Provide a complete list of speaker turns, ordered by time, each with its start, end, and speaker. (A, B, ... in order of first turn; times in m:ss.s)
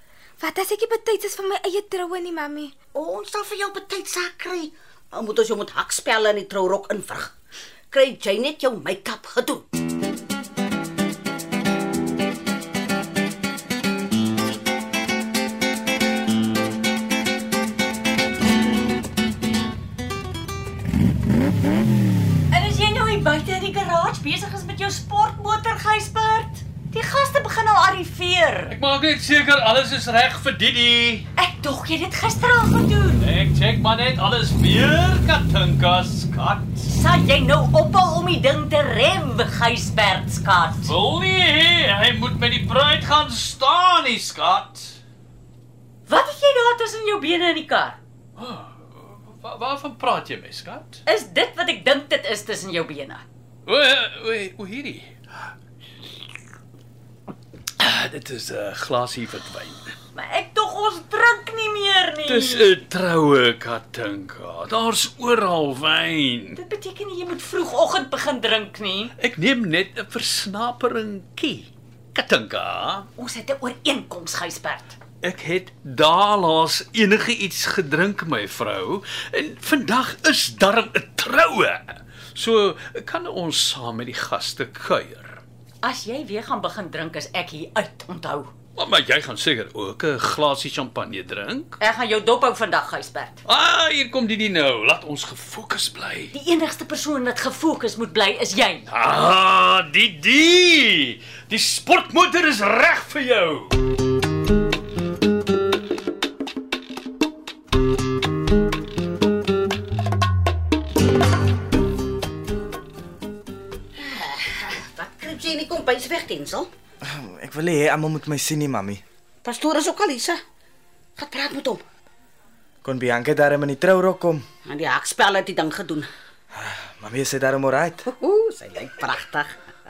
0:00.4-0:02.7 A
0:02.9-0:07.3 B
0:07.9-0:09.6 B
0:22.5-0:28.8 C
0:28.7-0:31.2 D
0:31.4-0:33.3 C
0:33.2-0:36.8 D
0:36.8-0:40.9 C
0:40.8-0:45.0 D
0:46.1-0:48.0 C
0:48.4-0:51.0 D
0:51.0-0:53.2 C
0:53.6-0:55.2 D
0:57.8-0:59.9 D
1:00.1-1:02.7 C
1:02.2-1:06.6 D
1:06.5-1:09.1 C
1:09.2-1:13.1 D
1:13.2-1:15.0 C
1:15.2-1:25.4 D
1:25.8-1:28.5 C
1:28.8-1:31.8 D
1:31.8-1:33.4 C
1:33.4-1:36.3 D
1:36.3-1:38.9 C
1:38.9-1:43.8 D
1:54.0-1:56.7 B
1:57.0-1:59.0 E
1:59.4-2:00.4 B
2:01.2-2:01.8 B
2:02.8-2:04.4 E
2:04.6-2:06.1 B
2:06.5-2:08.0 E
2:08.0-2:09.6 B